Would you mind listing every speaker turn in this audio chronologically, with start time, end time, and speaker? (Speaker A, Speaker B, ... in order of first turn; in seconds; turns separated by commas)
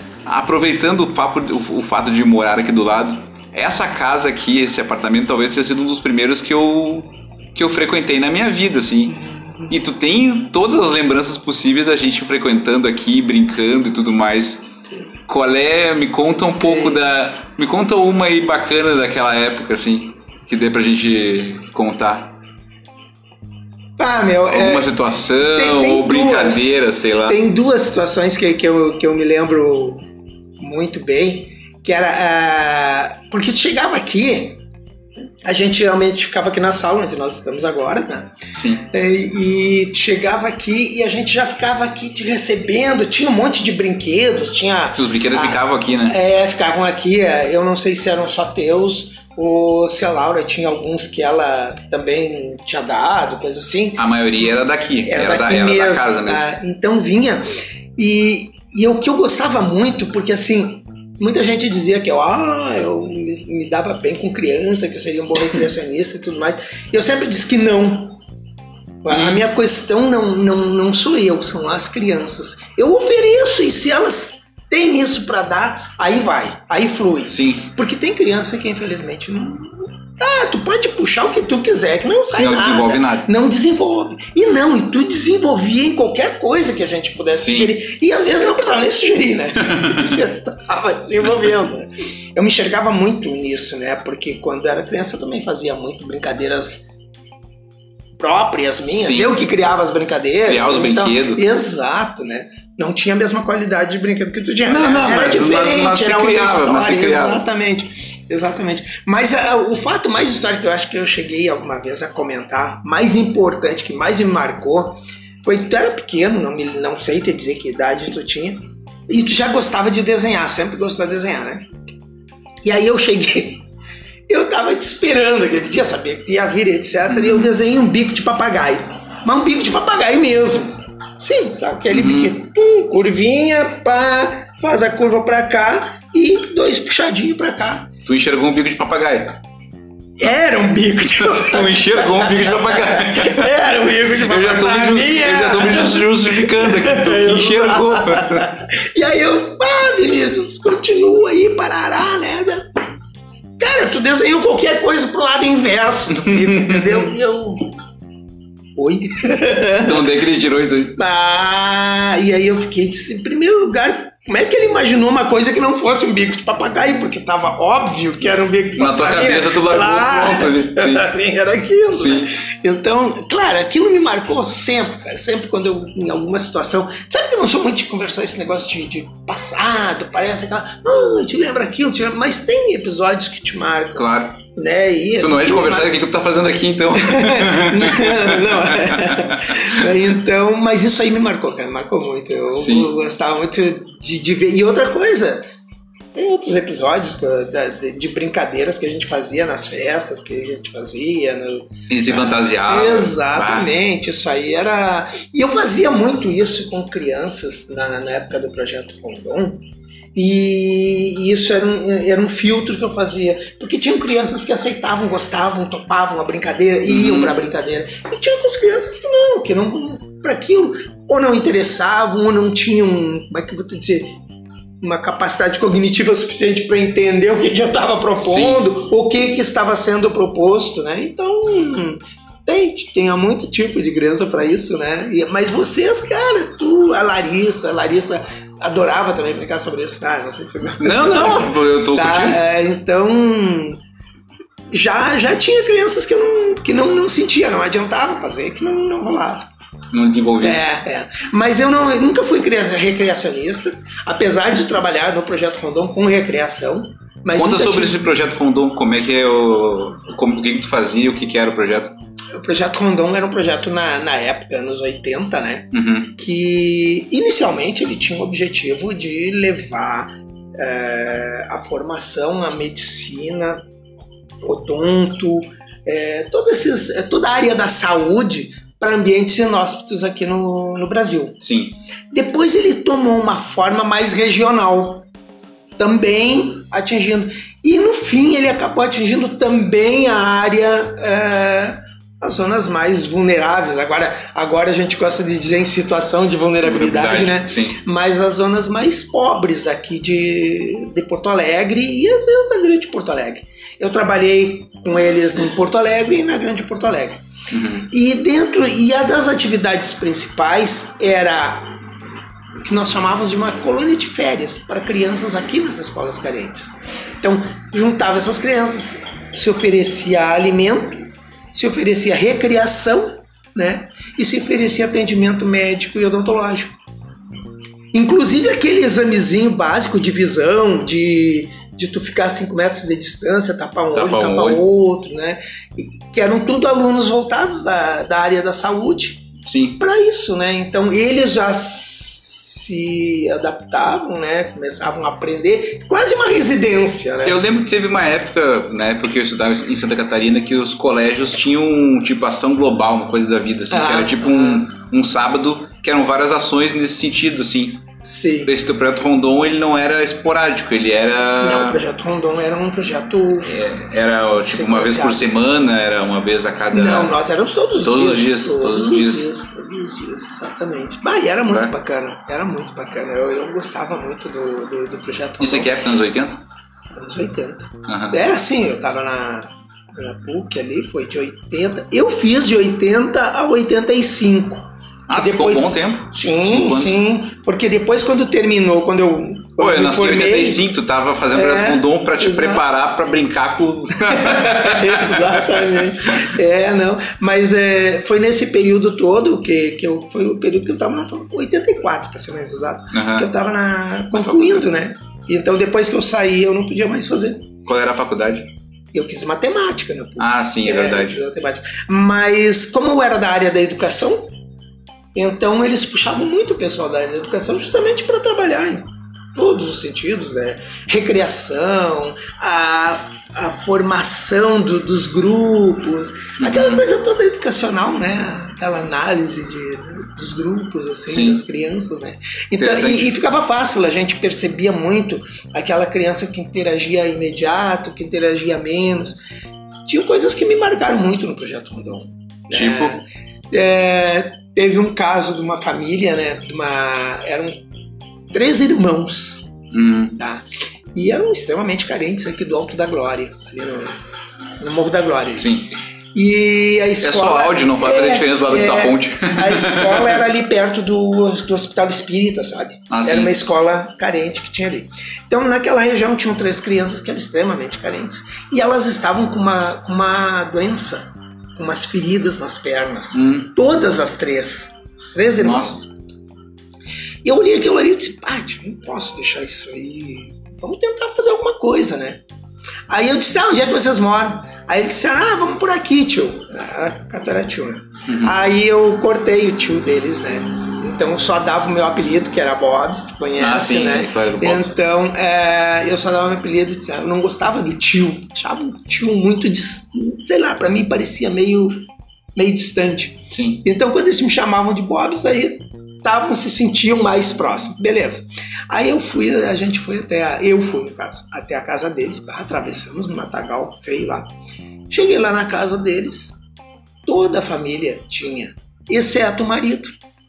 Speaker A: 0.2-9.2, Speaker B: 9.1-9.7, Speaker A: 9.7-14.6, Speaker A: 15.3-22.3, Speaker B: 16.6-17.0, Speaker B: 24.0-30.0, Speaker A: 24.5-27.4, Speaker B: 30.6-34.6, Speaker B: 35.4-54.5, Speaker A: 38.5-38.8, Speaker A: 45.0-46.1, Speaker A: 54.0-56.5, Speaker B: 55.0-57.5, Speaker B: 58.0-68.2, Speaker B: 69.0-96.8, Speaker A: 69.1-69.4, Speaker A: 77.3-77.7, Speaker A: 82.3-83.3, Speaker A: 87.3-87.7, Speaker B: 98.2-121.9, Speaker A: 98.8-99.4, Speaker A: 100.4-101.4, Speaker A: 104.7-107.4, Speaker B: 122.6-123.6, Speaker B: 124.3-137.9, Speaker A: 127.1-127.5, Speaker A: 131.9-132.3, Speaker A: 138.1-139.4, Speaker B: 140.2-152.7, Speaker A: 141.3-143.5, Speaker A: 144.2-148.5, Speaker B: 153.6-157.7, Speaker A: 156.3-157.0, Speaker B: 158.8-160.1, Speaker A: 159.8-160.9, Speaker B: 160.9-186.0, Speaker A: 168.8-171.1, Speaker A: 171.9-172.3, Speaker A: 183.9-184.4, Speaker A: 185.2-189.8, Speaker B: 186.9-195.5, Speaker A: 192.5-192.9, Speaker B: 196.1-209.6, Speaker A: 201.9-203.7, Speaker B: 210.1-224.1, Speaker A: 216.9-217.3, Speaker B: 224.8-243.8, Speaker A: 228.2-228.7, Speaker A: 240.8-242.4, Speaker B: 244.7-249.5, Speaker A: 249.9-250.6, Speaker B: 250.4-258.0, Speaker A: 257.3-261.9, Speaker B: 262.3-273.6, Speaker A: 265.7-266.1, Speaker B: 274.4-281.4, Speaker A: 281.4-281.7, Speaker B: 282.1-285.1, Speaker B: 285.8-307.2, Speaker A: 296.6-297.8, Speaker A: 307.5-307.9, Speaker B: 307.9-311.7, Speaker B: 312.6-326.8, Speaker B: 327.9-339.3, Speaker A: 333.9-334.6, Speaker A: 339.4-339.8, Speaker B: 339.8-347.4, Speaker A: 347.2-357.8, Speaker B: 353.7-354.7, Speaker B: 358.0-358.5, Speaker A: 358.4-361.8, Speaker B: 361.4-363.6, Speaker A: 363.4-367.1, Speaker B: 364.4-365.2, Speaker B: 366.7-375.7, Speaker A: 367.8-369.3, Speaker A: 375.4-376.4, Speaker B: 376.9-390.7, Speaker A: 377.9-378.2, Speaker A: 385.1-386.9, Speaker A: 389.6-396.3, Speaker B: 391.3-392.6, Speaker B: 394.0-407.5, Speaker A: 402.9-403.3, Speaker A: 404.1-404.7, Speaker A: 407.6-408.4, Speaker B: 408.9-414.3, Speaker A: 410.2-411.2, Speaker B: 415.1-439.2, Speaker A: 426.4-426.8, Speaker A: 431.1-431.4, Speaker A: 432.6-433.1, Speaker B: 439.9-447.6, Speaker A: 442.5-443.0, Speaker B: 448.3-449.5, Speaker A: 449.7-450.2, Speaker B: 450.2-454.0, Speaker B: 454.6-455.5, Speaker A: 455.4-455.7, Speaker B: 456.1-475.9, Speaker A: 457.0-460.2, Speaker A: 462.9-463.3, Speaker A: 473.1-473.5, Speaker A: 475.4-475.8, Speaker B: 477.2-482.2, Speaker B: 482.9-501.8, Speaker A: 488.1-488.3, Speaker A: 493.4-494.7, Speaker B: 502.3-514.3, Speaker A: 503.3-503.6, Speaker B: 514.9-516.3, Speaker B: 517.0-520.0